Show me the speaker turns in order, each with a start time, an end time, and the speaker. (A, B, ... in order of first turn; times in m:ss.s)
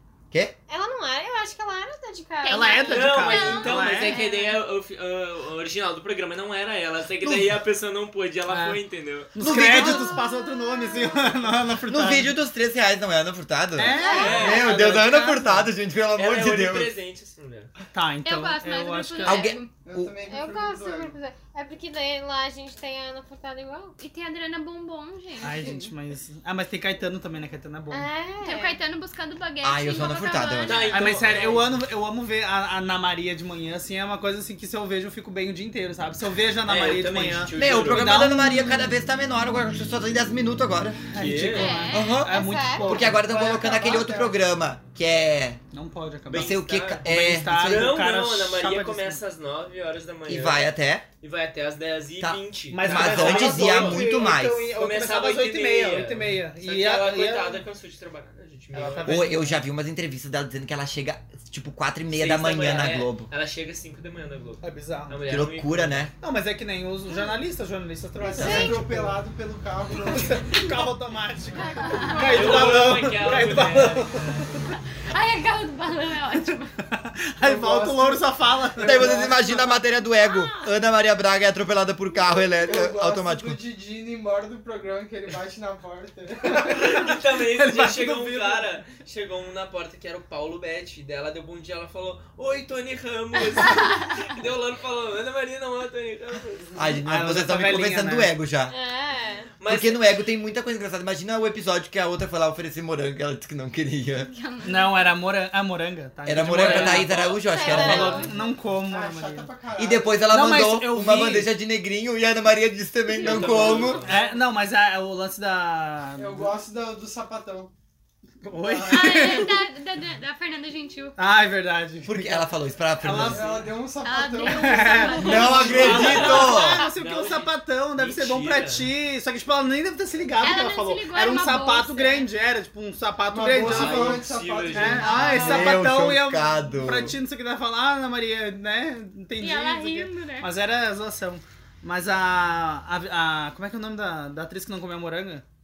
0:00.7-0:03.1 A
0:02.4-0:04.6 B
0:02.5-0:04.2 C
0:02.9-0:09.3 D
0:07.2-0:07.6 E
0:08.5-0:08.8 C
0:09.3-0:12.4 C
0:09.4-0:10.2 E
0:10.2-0:11.3 A
0:11.9-0:16.9 E
0:13.8-0:15.7 C
0:13.9-0:14.6 B
0:14.1-0:15.0 D
0:16.2-0:17.7 D
0:17.9-0:19.5 C
0:18.2-0:19.7 B
0:19.2-0:20.1 E
0:19.8-0:21.2 F
0:20.3-0:24.0 A
0:24.0-0:25.8 B
0:25.4-0:28.1 C
0:25.6-0:25.9 A
0:27.9-0:28.8 A
0:28.4-0:31.1 B
0:29.6-0:30.8 E
0:30.6-0:31.8 D
0:30.9-0:38.6 C
0:36.6-0:38.2 D
0:37.6-0:41.0 E
0:41.1-0:43.2 C
0:41.1-0:41.8 D
0:41.5-0:42.2 B
0:41.7-0:43.1 A
0:41.9-0:45.6 E
0:43.1-0:44.5 F
0:45.7-0:49.2 C
0:46.3-0:47.9 E
0:46.3-0:50.7 D
0:50.3-0:51.0 E
0:51.2-0:54.1 D
0:52.2-0:54.7 E
0:52.7-0:57.6 C
0:54.8-0:59.2 D
0:58.7-0:59.6 C
0:59.0-1:03.3 E
1:02.1-1:06.1 D
1:04.6-1:05.2 C
1:05.3-1:06.1 E
1:06.2-1:09.2 C
1:08.2-1:10.8 F
1:08.4-1:08.7 E
1:08.4-1:08.7 B
1:09.9-1:14.6 C
1:11.6-1:12.6 B
1:11.9-1:12.9 A
1:12.2-1:14.5 D
1:14.8-1:16.8 B
1:16.8-1:19.7 C
1:17.4-1:19.8 F
1:18.8-1:23.6 E
1:20.2-1:20.7 B
1:22.6-1:27.1 F
1:26.4-1:28.7 C
1:26.5-1:36.8 D
1:33.6-1:34.3 B
1:36.8-1:38.7 E
1:37.0-1:38.3 C
1:38.7-1:39.5 A
1:39.6-1:40.0 D
1:39.7-1:44.3 E
1:44.2-1:45.1 B
1:44.6-1:49.5 C
1:46.3-1:48.3 E
1:46.5-1:47.1 D
1:47.4-1:48.6 A
1:48.8-1:50.3 F
1:49.8-1:54.0 E
1:50.3-1:51.5 C
1:53.2-1:53.5 B
1:53.2-1:54.4 D
1:53.5-1:56.6 C
1:56.2-1:57.7 F
1:58.4-1:59.6 C
1:58.5-1:59.5 F
1:58.9-2:01.2 B
2:01.2-2:02.5 C
2:02.0-2:03.5 E
2:03.0-2:03.7 C
2:03.2-2:06.0 F
2:04.0-2:06.6 B
2:04.4-2:25.4 C
2:04.8-2:05.6 A
2:05.2-2:06.9 E
2:05.5-2:08.9 D
2:10.4-2:12.3 B
2:13.2-2:15.8 F
2:13.6-2:15.6 D
2:15.3-2:17.2 E
2:19.4-2:20.5 B